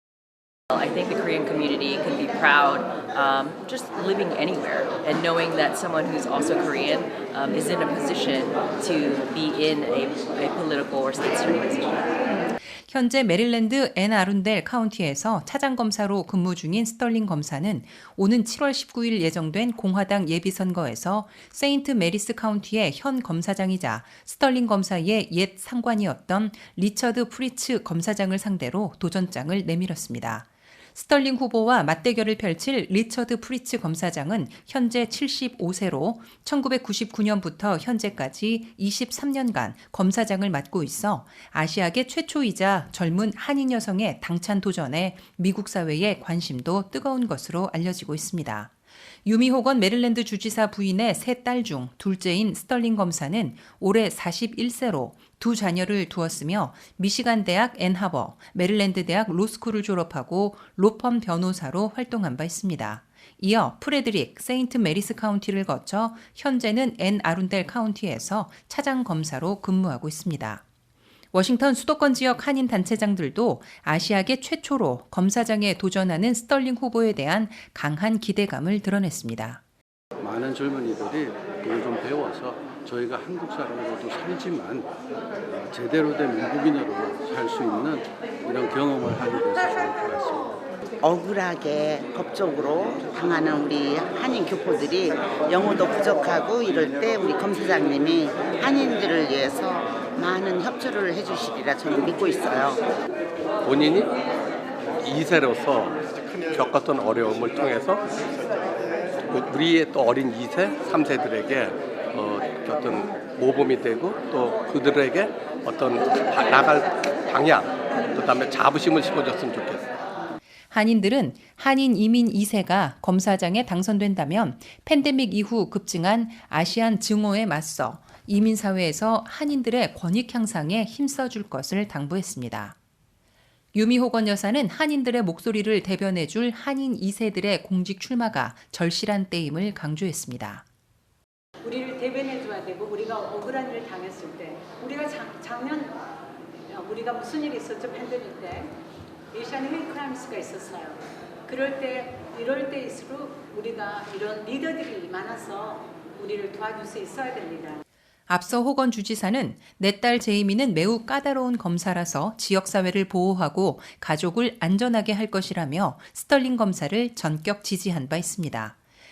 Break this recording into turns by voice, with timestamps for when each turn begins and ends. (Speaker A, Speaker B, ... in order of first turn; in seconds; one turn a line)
Speaker A: 0.7-12.1
Speaker B: 12.9-48.7
Speaker B: 49.2-70.6
Speaker B: 71.3-79.6
Speaker C: 80.2-84.9
Speaker C: 85.5-90.5
Speaker D: 91.0-102.8
Speaker E: 103.6-104.1
Speaker E: 105.0-108.0
Speaker E: 109.3-119.8
Speaker B: 120.7-132.8
Speaker B: 133.7-140.6
Speaker F: 141.6-146.0
Speaker F: 146.7-148.8
Speaker F: 149.3-157.8
Speaker B: 158.3-168.8